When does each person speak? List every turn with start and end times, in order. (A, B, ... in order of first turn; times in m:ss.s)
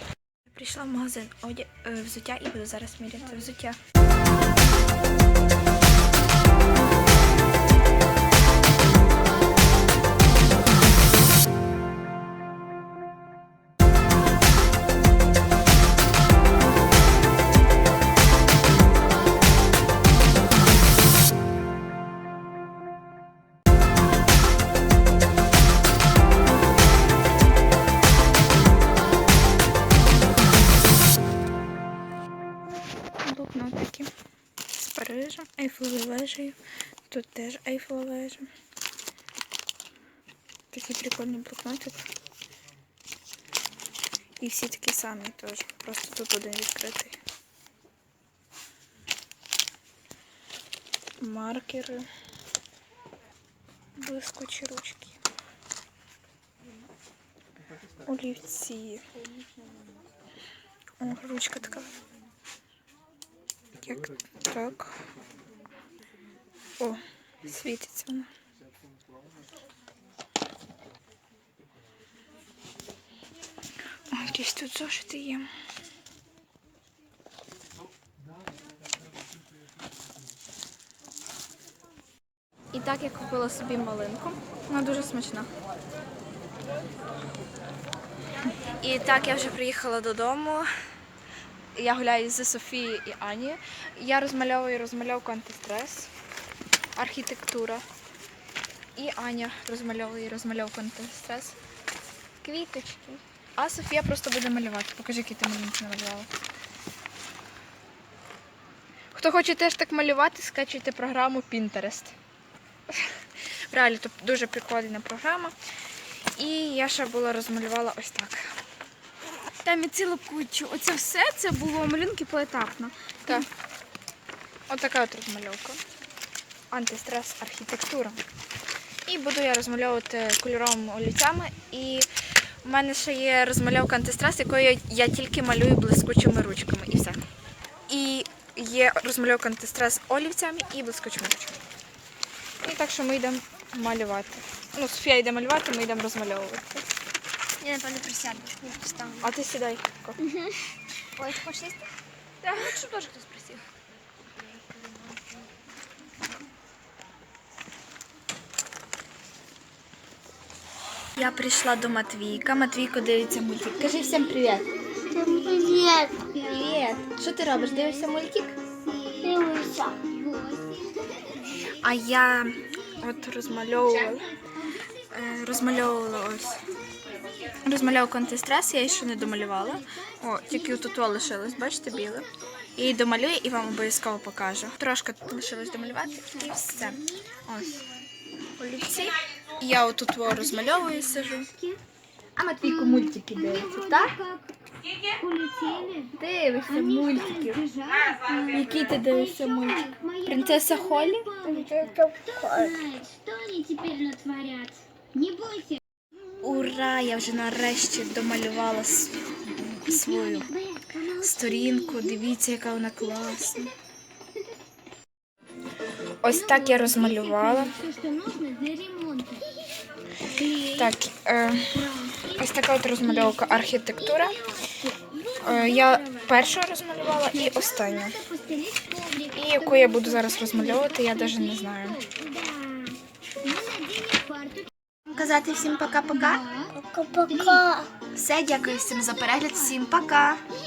0:00.5-0:03.8 A
0:33.2-0:34.1 A
0:34.7-0:38.5 A
0:40.7-0:42.1 A
0:44.4-0:47.2 A
0:51.2-0:52.1 A
0:54.0-0:55.2 A
0:58.0-0:59.0 A
1:01.0-1:01.9 A
1:03.8-1:05.0 A
1:06.8-1:08.3 A
1:14.1-1:15.5 A
1:22.7-1:25.5 A
1:28.7-1:30.7 A
1:31.7-1:36.1 A
1:36.9-1:37.8 A
1:39.0-1:41.6 A
1:42.4-1:46.3 A
1:49.1-1:52.1 A
1:52.9-1:55.6 A
1:56.3-1:58.6 A
1:59.6-2:03.2 B
2:04.7-2:05.8 A
2:06.7-2:08.2 A
2:09.0-2:17.2 A
2:17.9-2:21.6 A
2:22.6-2:26.8 A
2:27.6-2:29.3 B
2:29.2-2:30.2 A
2:30.2-2:30.5 B
2:31.2-2:31.8 B
2:32.4-2:33.6 A
2:41.1-2:44.7 A
2:45.1-2:46.3 B
2:46.2-2:48.5 A
2:49.1-2:50.1 B
2:50.1-2:51.0 C
2:51.5-2:54.3 A
2:55.0-2:56.6 A
2:57.5-3:07.9 A
3:08.6-3:11.5 A
3:12.4-3:14.2 A
3:15.2-3:16.0 C
3:16.0-3:17.7 A
3:17.7-3:18.2 C
3:18.3-3:23.1 A
3:23.2-3:25.8 C
3:26.4-3:33.7 A
3:36.2-3:37.8 A
3:37.9-3:39.4 C
3:40.5-3:44.5 A
3:45.3-3:52.1 A
3:52.3-3:54.7 C
3:55.1-3:56.5 A
3:56.7-3:57.9 B
3:58.1-4:00.4 A